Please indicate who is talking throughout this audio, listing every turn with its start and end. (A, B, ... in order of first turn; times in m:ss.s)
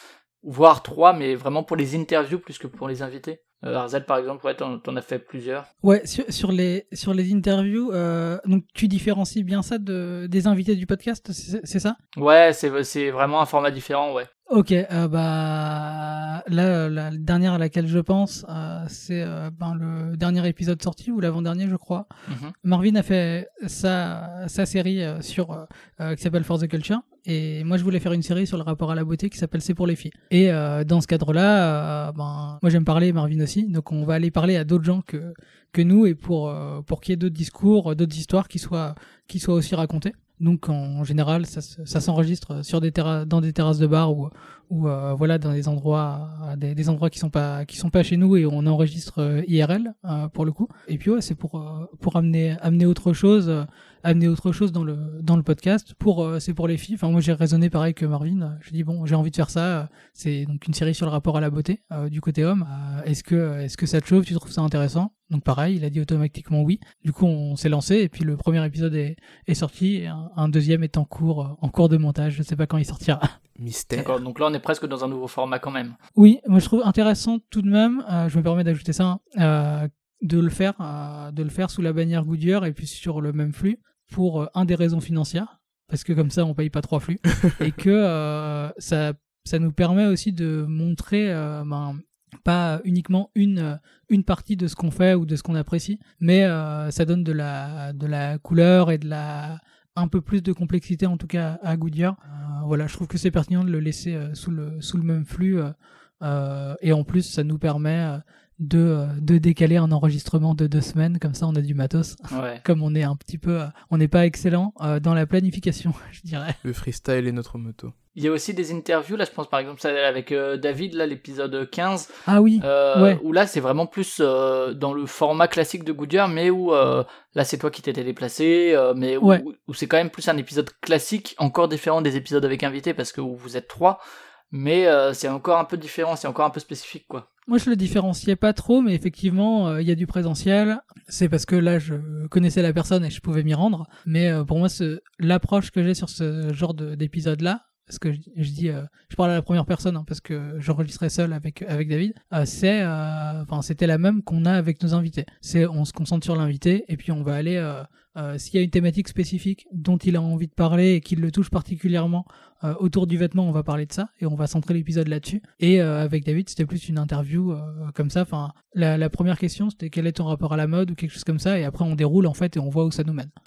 0:00.4-0:05.7 A
0:05.8-0:12.0 B
0:12.2-0:14.3 A
0:14.5-0:22.1 B
0:22.3-0:22.5 A
0:22.6-1:13.3 B
1:13.6-1:14.2 C
1:14.0-1:16.0 A
1:16.2-1:56.6 B
1:52.3-1:52.6 A
1:56.6-1:57.9 C
1:58.2-2:02.1 A
2:02.3-2:03.2 B
2:02.6-2:17.3 A
2:17.5-2:53.3 B